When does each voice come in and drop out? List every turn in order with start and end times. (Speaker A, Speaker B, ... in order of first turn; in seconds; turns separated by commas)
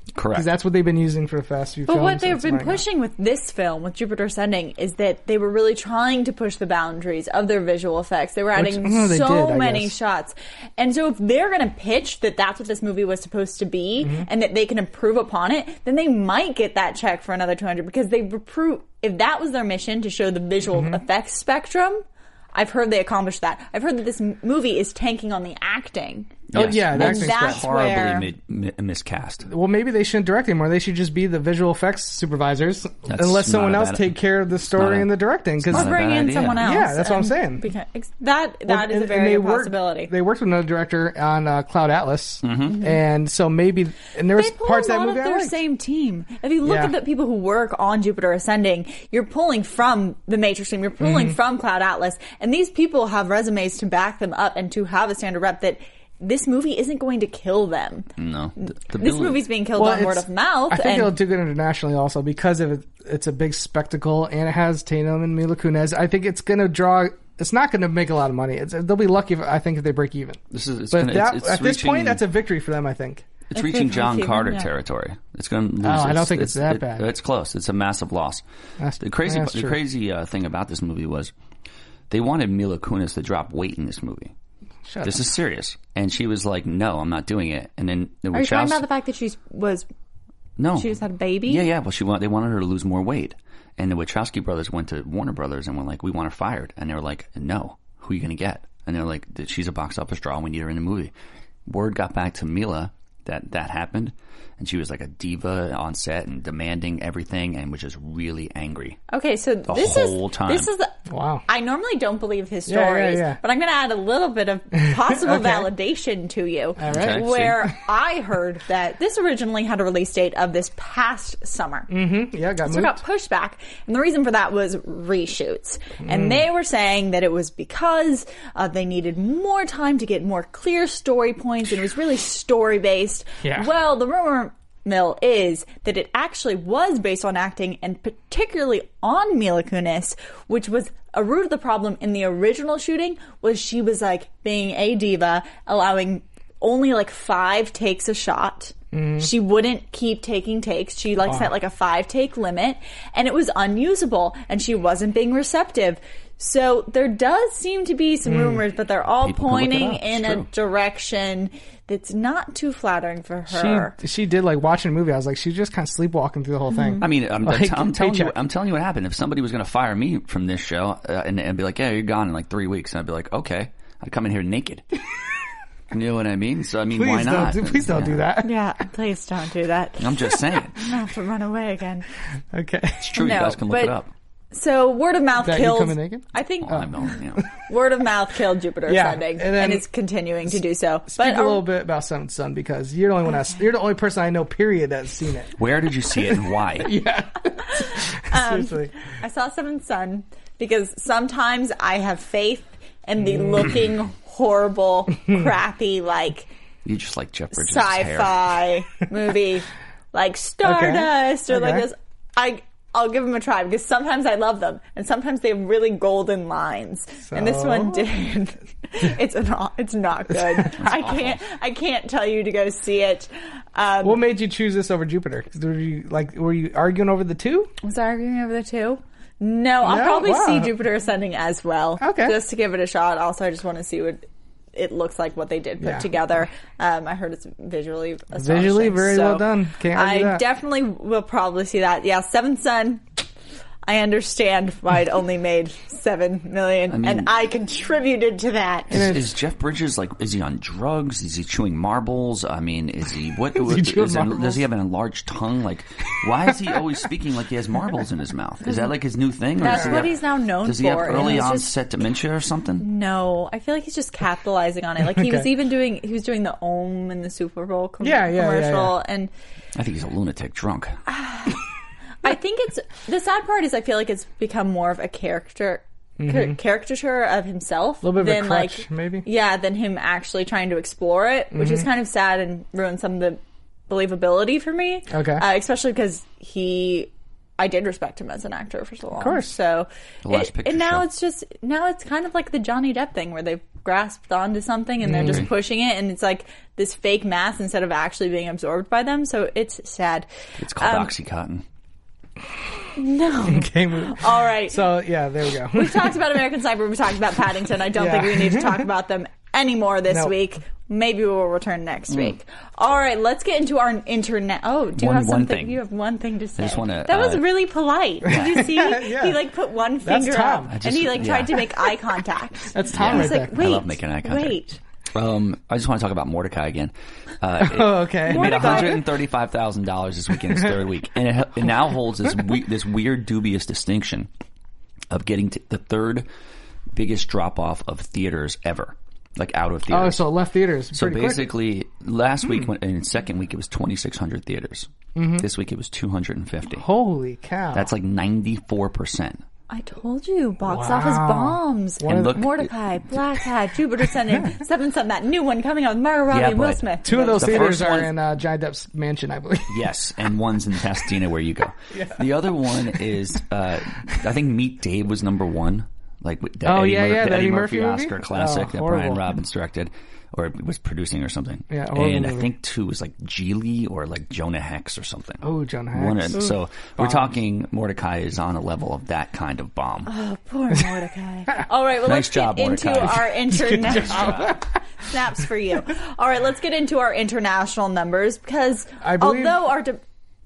Speaker A: 0.1-0.5, Speaker B: 0.3-2.8, Speaker C: 1.9-28.3, Speaker B: 8.6-9.9, Speaker B: 20.7-21.0, Speaker A: 26.5-29.5, Speaker B: 26.5-27.7, Speaker B: 29.5-36.0, Speaker A: 33.1-36.7, Speaker C: 35.7-40.1, Speaker B: 36.6-37.7, Speaker B: 38.7-45.5, Speaker A: 42.4-42.8, Speaker C: 44.3-58.1, Speaker B: 46.6-47.0, Speaker B: 51.0-51.4, Speaker A: 58.2-59.4, Speaker C: 58.6-61.2, Speaker B: 59.8-70.4, Speaker A: 70.5-72.2, Speaker B: 70.9-73.3, Speaker A: 73.5-78.4, Speaker C: 73.5-74.7, Speaker B: 75.8-77.1, Speaker B: 78.8-79.8, Speaker A: 79.0-81.3, Speaker A: 82.1-84.3, Speaker B: 84.9-85.2, Speaker A: 85.0-88.8, Speaker C: 88.3-89.9, Speaker A: 90.6-90.9, Speaker C: 90.8-91.7, Speaker A: 91.5-101.1, Speaker A: 101.7-109.0, Speaker C: 109.1-110.9, Speaker A: 109.7-110.7, Speaker B: 111.1-111.4, Speaker C: 111.5-121.9, Speaker B: 112.7-113.4, Speaker B: 114.8-115.7, Speaker B: 116.8-117.2, Speaker A: 116.9-117.6, Speaker B: 121.9-123.0, Speaker C: 122.6-163.9, Speaker B: 126.0-126.4, Speaker B: 148.9-149.3, Speaker B: 158.3-158.6, Speaker A: 159.2-160.5, Speaker B: 163.5-168.3, Speaker C: 166.7-167.1, Speaker A: 167.0-174.8, Speaker A: 175.9-178.3, Speaker B: 176.9-178.5, Speaker C: 178.4-182.1, Speaker A: 180.0-180.9, Speaker B: 182.5-183.1, Speaker A: 183.0-184.1, Speaker C: 183.2-184.0, Speaker C: 184.5-186.9, Speaker B: 185.4-187.5, Speaker A: 186.6-187.4, Speaker C: 187.7-191.7, Speaker B: 188.9-189.9, Speaker B: 191.1-195.5, Speaker A: 195.6-197.0, Speaker B: 196.2-198.9, Speaker C: 197.6-206.5, Speaker B: 203.2-203.8, Speaker A: 206.8-208.4, Speaker C: 207.5-224.2, Speaker B: 210.6-211.9, Speaker B: 217.3-218.1, Speaker A: 220.8-221.4, Speaker B: 224.0-227.7, Speaker C: 227.8-243.0, Speaker B: 229.8-230.7, Speaker B: 232.0-232.4, Speaker B: 235.8-236.1, Speaker B: 238.3-240.5, Speaker C: 243.9-249.0, Speaker A: 246.9-247.3, Speaker A: 248.9-262.9, Speaker B: 248.9-249.2, Speaker B: 253.5-254.6, Speaker C: 258.7-258.9, Speaker C: 259.6-261.7, Speaker B: 259.7-260.1, Speaker C: 262.8-269.3, Speaker B: 265.0-265.5, Speaker B: 268.0-268.9, Speaker A: 269.8-271.0, Speaker C: 271.1-271.6, Speaker C: 272.2-301.1, Speaker B: 276.2-276.6, Speaker B: 278.0-279.2, Speaker B: 281.5-281.9, Speaker B: 285.1-285.4, Speaker B: 289.2-289.6, Speaker A: 290.2-291.1, Speaker B: 295.1-295.5, Speaker A: 295.1-295.5, Speaker A: 300.6-301.6, Speaker C: 303.0-305.0, Speaker B: 303.4-306.2, Speaker C: 305.7-324.8, Speaker B: 307.9-308.9, Speaker B: 310.1-310.3, Speaker A: 315.0-315.8, Speaker A: 316.6-317.5, Speaker B: 318.2-319.4, Speaker A: 318.3-318.6, Speaker B: 320.0-320.8, Speaker A: 320.7-321.7, Speaker B: 322.7-323.6, Speaker A: 322.9-324.6, Speaker A: 325.1-334.3, Speaker B: 327.6-329.1, Speaker C: 328.3-329.0, Speaker A: 335.1-336.3, Speaker A: 336.9-340.2, Speaker B: 339.9-341.5, Speaker A: 340.9-346.9, Speaker B: 345.2-345.5, Speaker B: 346.8-347.9, Speaker A: 347.7-349.4, Speaker C: 349.7-357.9, Speaker B: 350.6-352.3, Speaker A: 352.0-352.7, Speaker B: 354.3-354.6, Speaker A: 356.3-358.1, Speaker B: 357.0-359.8, Speaker A: 359.7-380.1, Speaker B: 361.9-362.3, Speaker B: 366.6-369.3, Speaker B: 371.7-372.5, Speaker B: 375.4-376.4, Speaker B: 377.0-377.3, Speaker C: 380.1-390.0, Speaker A: 382.0-384.5, Speaker B: 383.7-384.6, Speaker B: 389.0-389.7